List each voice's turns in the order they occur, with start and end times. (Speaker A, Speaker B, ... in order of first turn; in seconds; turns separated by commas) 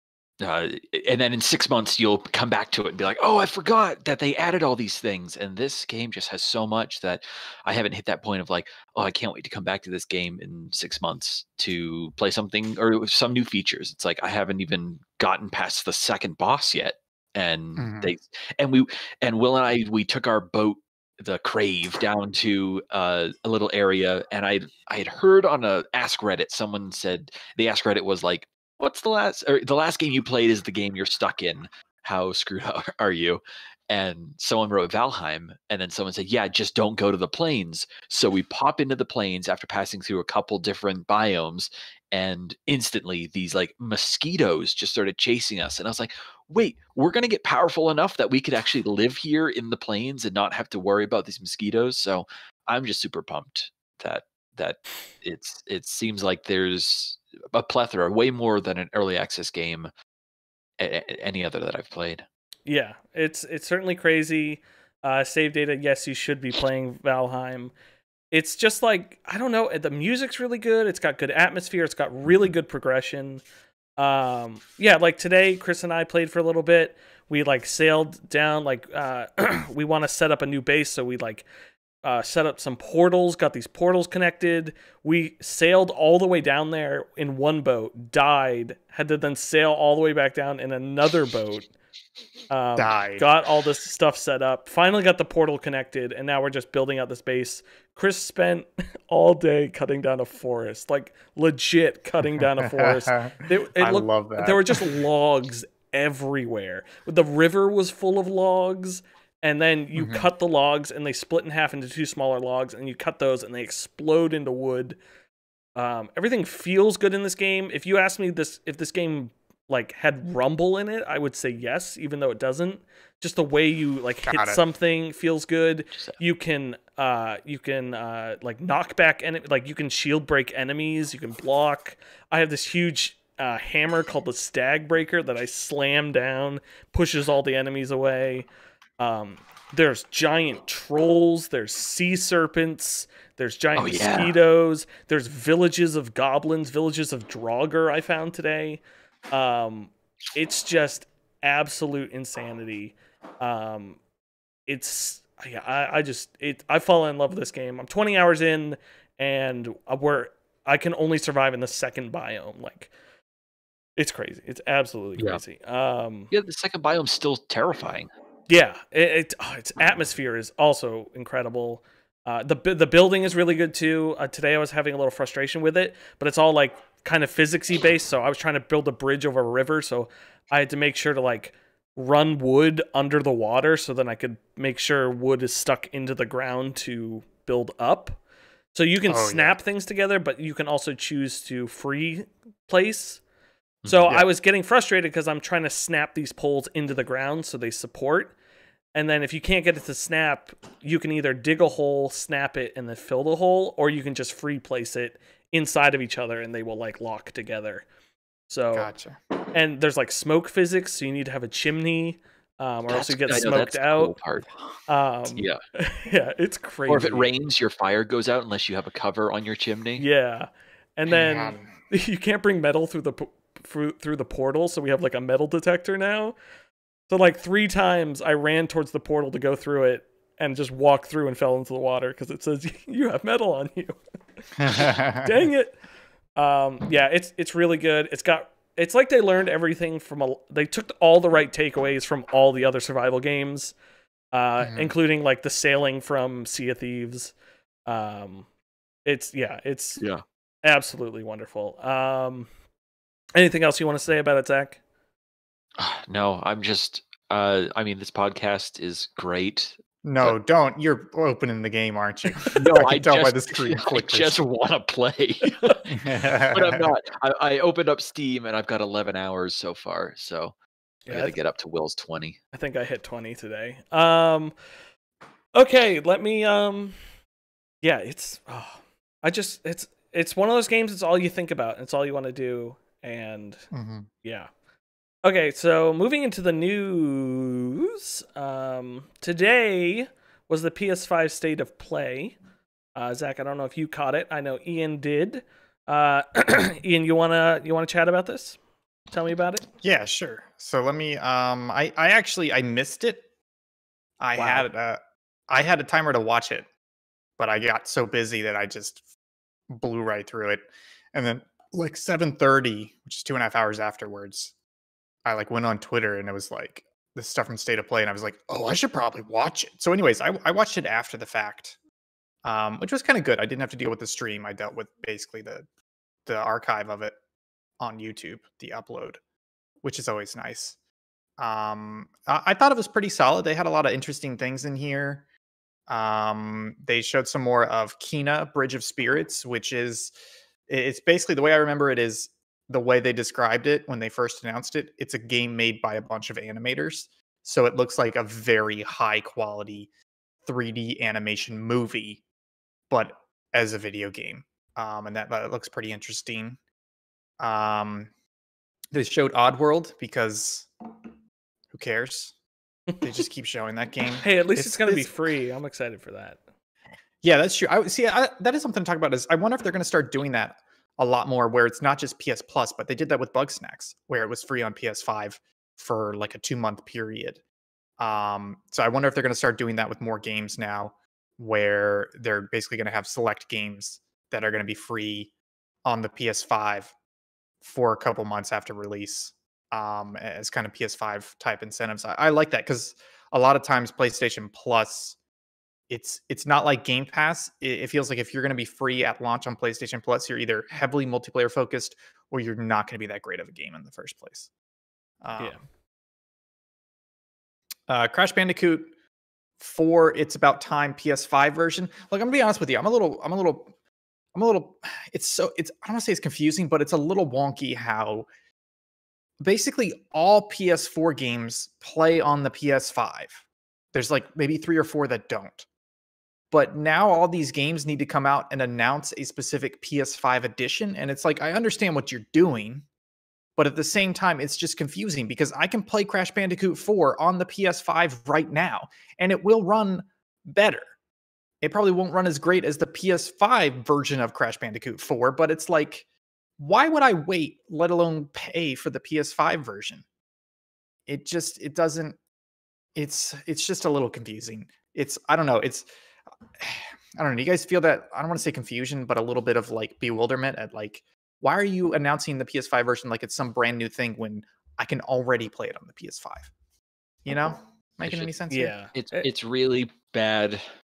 Speaker A: 0.4-59.9, Speaker B: 17.8-18.1, Speaker A: 60.8-62.2, Speaker C: 62.6-67.7, Speaker C: 68.3-73.4, Speaker C: 74.0-81.5, Speaker C: 82.0-91.7, Speaker C: 92.5-115.0, Speaker B: 92.8-93.2, Speaker B: 102.3-104.8, Speaker B: 110.0-110.3, Speaker C: 115.8-138.4, Speaker B: 124.2-124.6, Speaker C: 139.0-154.0, Speaker A: 143.8-144.3, Speaker C: 154.7-162.9, Speaker C: 164.0-166.3, Speaker A: 166.3-168.1, Speaker C: 168.5-188.2, Speaker C: 188.7-193.2, Speaker B: 189.1-189.6, Speaker A: 193.8-194.2, Speaker C: 193.9-198.3, Speaker C: 198.9-207.8, Speaker C: 208.5-208.9, Speaker B: 208.7-209.2, Speaker C: 209.5-214.1, Speaker A: 212.9-214.5, Speaker C: 214.9-217.3, Speaker A: 216.9-220.1, Speaker C: 220.0-226.3, Speaker B: 221.1-221.7, Speaker C: 227.1-234.0, Speaker B: 234.6-235.5, Speaker C: 234.7-235.8, Speaker C: 236.3-243.7, Speaker C: 244.3-247.3, Speaker B: 244.6-244.9, Speaker C: 247.8-248.4, Speaker C: 249.0-250.0, Speaker C: 250.6-252.5, Speaker C: 253.3-254.8, Speaker A: 255.8-260.4, Speaker B: 260.0-264.4, Speaker A: 262.5-265.9, Speaker C: 265.5-265.8, Speaker B: 265.9-266.9, Speaker A: 266.5-270.5, Speaker C: 271.1-271.3, Speaker A: 271.1-272.4, Speaker C: 272.5-274.5, Speaker C: 275.5-277.0, Speaker C: 277.8-283.7, Speaker B: 283.7-284.1, Speaker C: 284.2-284.5, Speaker C: 285.2-292.4, Speaker C: 292.9-298.6, Speaker C: 299.1-299.6, Speaker B: 299.8-303.2, Speaker B: 304.2-306.7, Speaker C: 304.4-304.7, Speaker B: 307.4-309.0, Speaker B: 309.7-314.5, Speaker B: 315.2-321.8, Speaker B: 322.4-325.6, Speaker B: 326.2-327.1, Speaker B: 327.8-329.2, Speaker B: 329.8-330.8, Speaker B: 331.4-335.2, Speaker B: 335.9-340.1, Speaker B: 340.7-349.9, Speaker B: 350.4-352.2, Speaker B: 352.9-356.6, Speaker B: 357.4-358.1, Speaker B: 358.9-360.7, Speaker B: 361.7-362.3, Speaker B: 363.0-365.1, Speaker C: 364.2-366.4, Speaker B: 367.2-377.4, Speaker B: 378.0-385.3, Speaker B: 385.8-386.9, Speaker B: 387.6-395.2, Speaker B: 395.9-404.5, Speaker B: 405.2-405.6, Speaker C: 405.4-405.6, Speaker B: 407.9-408.9, Speaker B: 409.6-413.7, Speaker B: 414.3-418.3, Speaker B: 419.4-425.6, Speaker B: 426.5-432.9, Speaker B: 433.6-440.9, Speaker B: 441.6-446.0, Speaker B: 446.6-450.0, Speaker B: 451.1-452.2, Speaker B: 452.9-455.9, Speaker B: 456.6-466.5, Speaker B: 467.2-468.8, Speaker A: 468.0-468.3, Speaker C: 468.5-469.3, Speaker A: 468.9-470.6